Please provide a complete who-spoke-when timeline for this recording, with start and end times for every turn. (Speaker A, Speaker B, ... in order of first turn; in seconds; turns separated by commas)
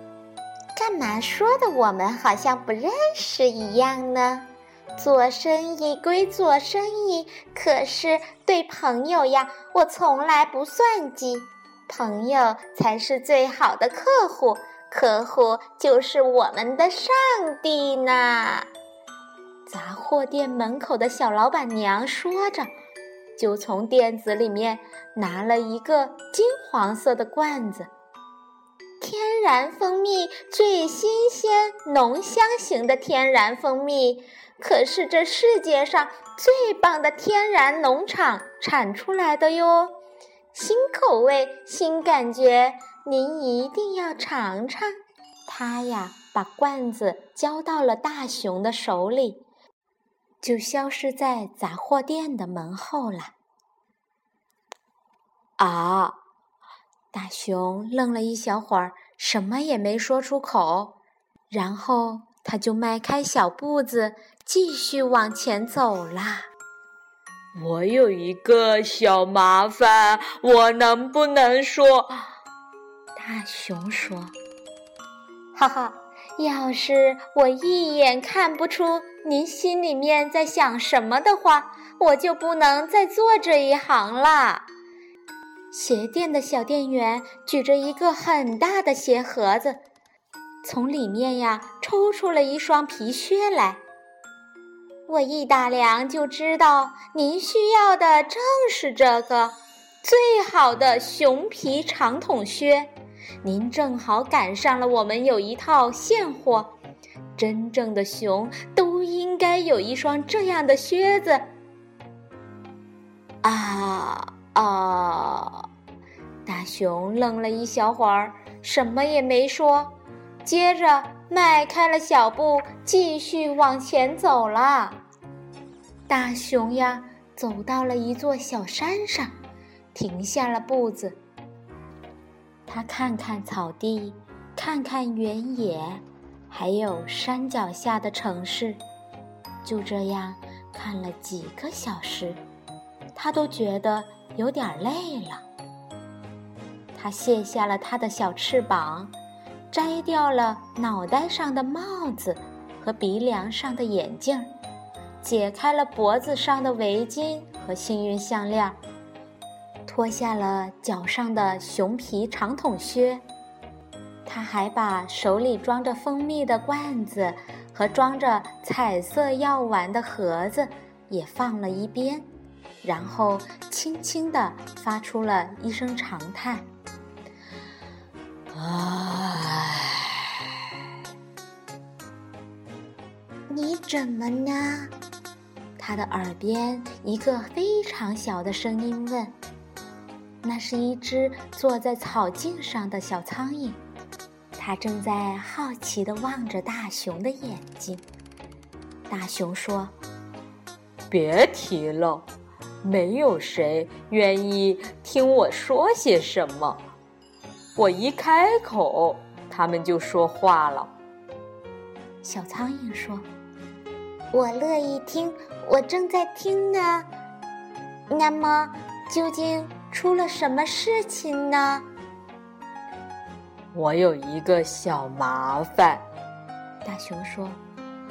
Speaker A: 0.8-18.7, Speaker A: 19.6-22.7, Speaker A: 23.4-27.9, Speaker A: 29.0-39.9, Speaker A: 40.5-49.4, Speaker A: 50.4-53.3, Speaker A: 55.6-56.2, Speaker A: 57.1-60.9, Speaker A: 61.5-66.5, Speaker B: 67.5-72.2, Speaker A: 73.1-74.3, Speaker A: 75.5-84.7, Speaker A: 85.7-89.8, Speaker A: 90.6-93.8, Speaker A: 95.1-102.9, Speaker A: 103.4-106.7, Speaker A: 107.3-111.5, Speaker A: 113.4-115.7, Speaker A: 116.5-125.0, Speaker A: 126.1-129.3, Speaker A: 129.9-131.2, Speaker A: 132.7-138.8, Speaker A: 139.6-142.4, Speaker A: 143.1-145.4, Speaker A: 146.9-149.1, Speaker A: 149.7-154.5, Speaker A: 155.2-158.8, Speaker A: 159.8-163.2, Speaker A: 164.2-172.3, Speaker A: 172.8-176.6, Speaker B: 178.5-180.0, Speaker A: 183.5-184.9, Speaker A: 185.8-189.3, Speaker A: 190.4-193.8, Speaker A: 194.6-198.0, Speaker A: 199.1-199.9, Speaker B: 201.1-202.2, Speaker B: 202.8-206.8, Speaker B: 207.8-210.9, Speaker A: 212.2-213.3, Speaker A: 214.3-217.1, Speaker A: 218.1-221.8, Speaker B: 223.7-226.0, Speaker A: 226.8-227.6